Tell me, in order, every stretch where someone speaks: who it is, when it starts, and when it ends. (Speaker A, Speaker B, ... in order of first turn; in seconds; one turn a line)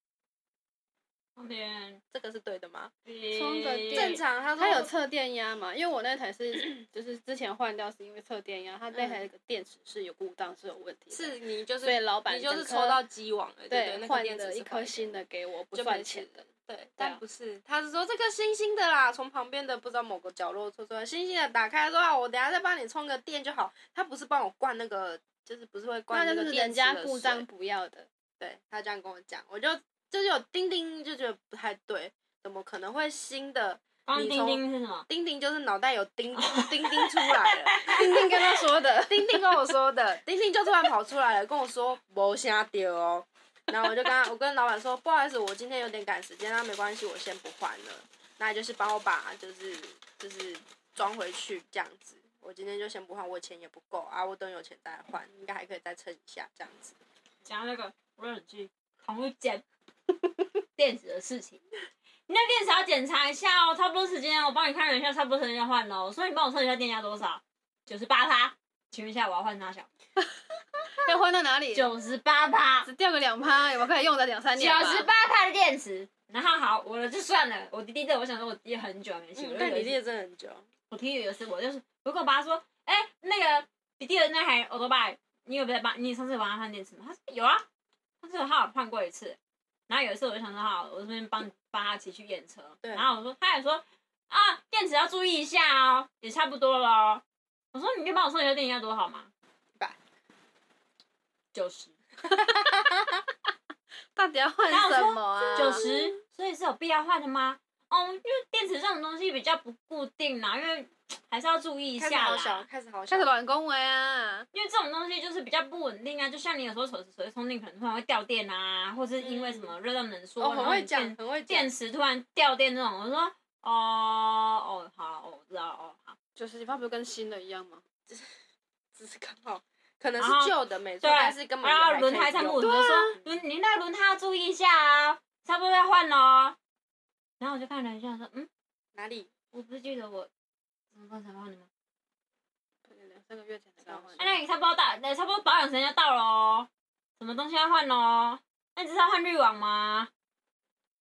Speaker A: 1.4-2.0
Speaker B: 2.1-2.9
Speaker A: 3.0-4.2
Speaker C: 3.3-13.0
Speaker B: 3.9-4.9
Speaker B: 8.9-9.2
Speaker B: 11.1-15.2
Speaker C: 13.7-16.4
Speaker B: 15.7-27.4
Speaker C: 26.1-28.1
Speaker B: 28.4-38.4
Speaker A: 34.0-35.1
Speaker A: 36.4-38.0
Speaker C: 37.8-39.3
Speaker B: 39.0-57.0
Speaker A: 57.4-59.6
Speaker A: 60.8-61.6
Speaker A: 62.3-69.9
Speaker C: 70.8-71.9
Speaker A: 71.7-72.9
Speaker C: 72.8-75.1
Speaker A: 74.5-80.0
Speaker B: 79.3-80.7
Speaker A: 80.9-87.7
Speaker A: 88.2-89.4
Speaker A: 89.9-97.2
Speaker B: 92.8-93.1
Speaker A: 97.7-99.3
Speaker A: 101.5-101.9
Speaker C: 104.1-105.8
Speaker A: 104.7-112.7
Speaker B: 112.0-113.3
Speaker C: 113.1-114.5
Speaker A: 114.5-126.2
Speaker B: 119.3-119.7
Speaker B: 120.4-121.7
Speaker C: 126.3-127.8
Speaker B: 128.1-128.3
Speaker B: 128.9-132.7
Speaker A: 130.2-136.6
Speaker C: 132.6-133.2
Speaker A: 137.4-138.5
Speaker B: 138.9-139.3
Speaker A: 139.5-140.3
Speaker A: 140.9-141.7
Speaker C: 142.8-144.4
Speaker B: 143.8-144.3
Speaker A: 144.2-150.1